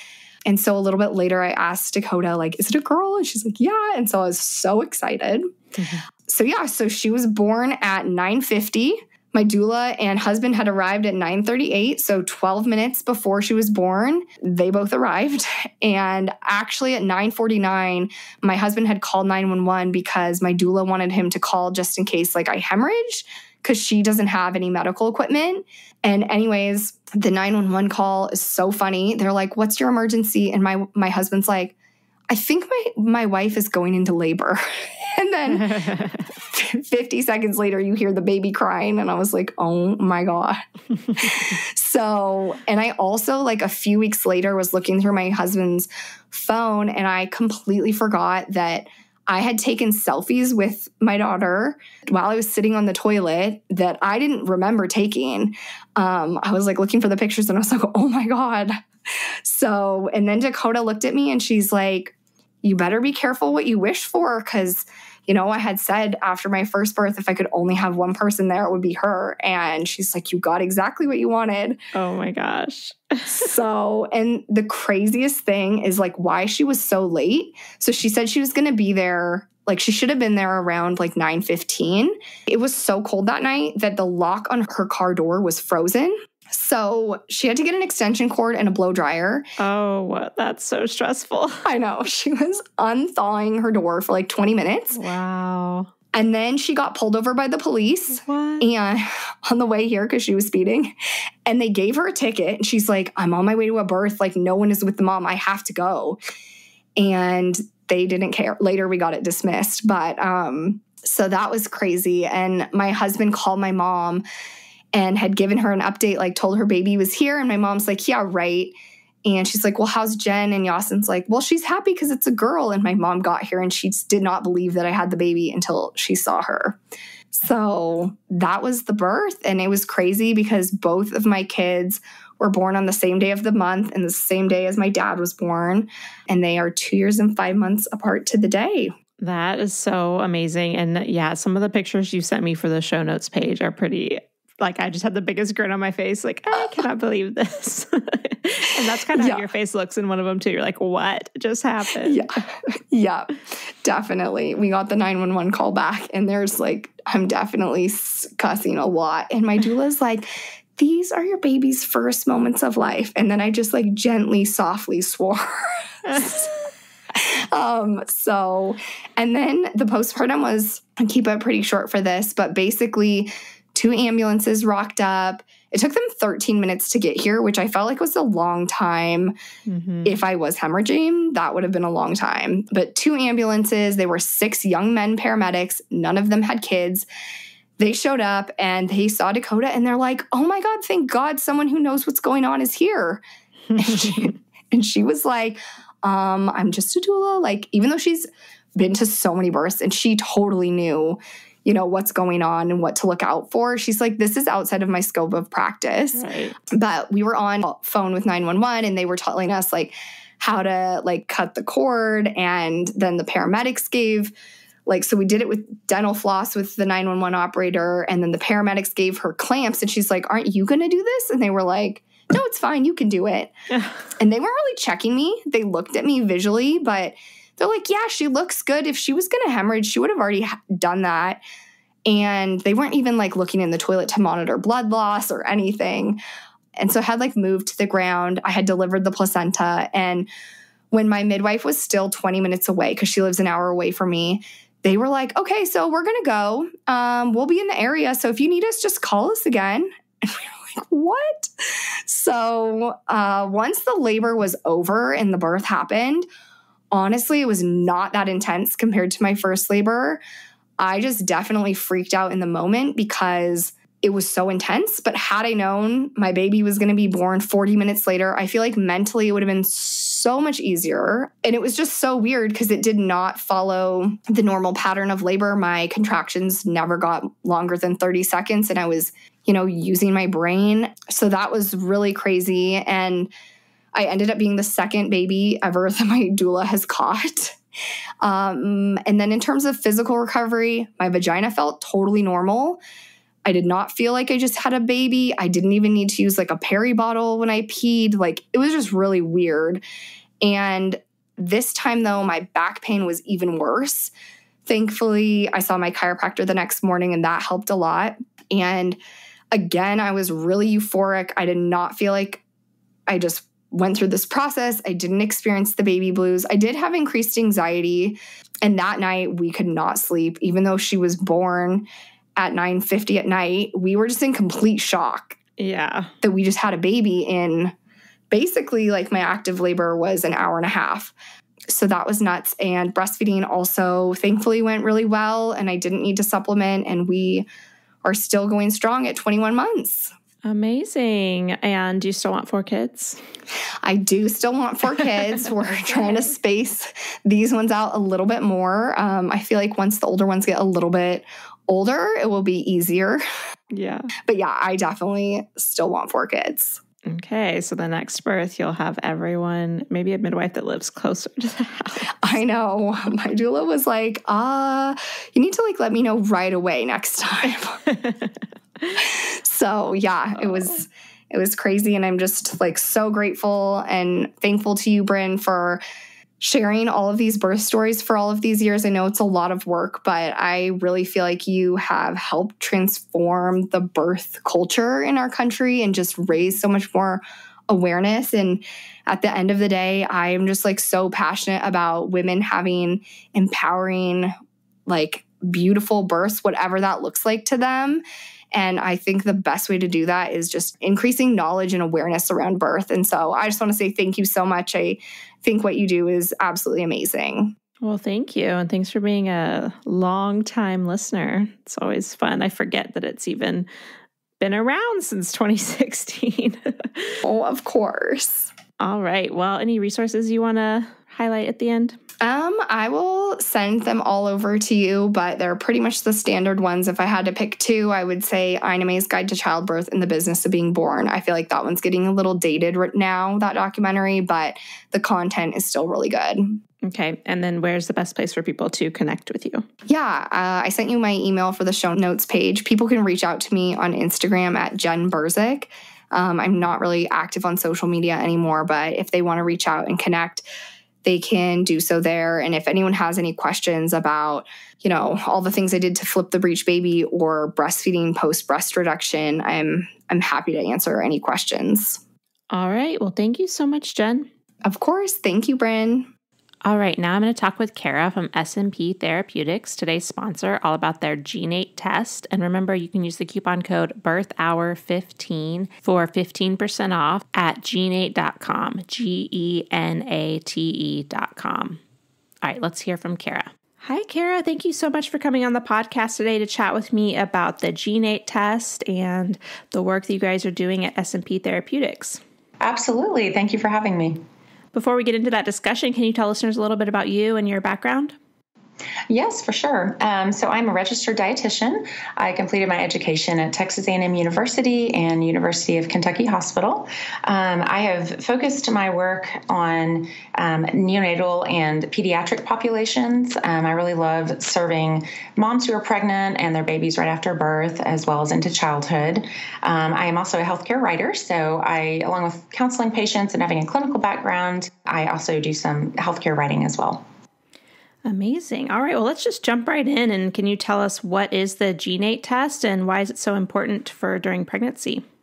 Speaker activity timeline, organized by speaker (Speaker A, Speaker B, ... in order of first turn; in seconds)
Speaker A: 0.5-5.5, 6.3-31.7, 32.3-34.6, 35.1-40.6, 41.2-58.8, 59.4-71.8, 73.3-89.4, 91.6-95.0, 96.1-100.9, 101.5-106.2, 107.0-114.2, 114.9-118.7, 119.2-126.8, 127.3-138.9, 149.2-149.5, 152.0-165.4, 166.0-166.5, 167.1-179.3, 180.0-187.0, 187.8-193.2, 193.8-206.2, 206.7-214.3, 214.9-223.5, 224.2-231.4, 232.1-236.2, 236.8-240.3, 240.9-251.5, 252.1-256.2, 256.9-260.2, 260.8-283.3, 283.9-287.6, 288.2-292.8, 293.4-299.8, 300.4-304.1, 304.6-309.0, 309.5-312.4, 313.1-325.4, 326.2-327.7, 328.3-331.1, 331.7-337.4, 338.0-340.1, 343.8-353.2, 354.3-356.8, 362.2-367.8, 369.0-375.8, 376.4-394.3, 394.9-398.0, 398.5-407.5, 417.2-418.5, 422.2-436.6, 439.9-450.4, 451.0-462.0, 464.6-466.1
Speaker B: 5.8-6.0, 35.5-36.2, 71.9-73.5, 89.6-91.6, 94.9-95.9, 98.1-98.7, 139.2-152.2, 179.7-180.2, 193.7-194.3, 206.1-206.6, 223.7-224.0, 325.6-326.1, 340.4-343.2, 345.0-346.2, 353.7-354.1, 357.1-362.1, 367.9-368.2, 407.8-413.7, 414.4-417.2, 418.8-421.9, 436.8-439.6, 462.5-464.3, 466.6-481.8, 482.4-492.2, 494.7-498.1, 528.0-535.0
Speaker C: 492.6-494.2, 499.1-527.0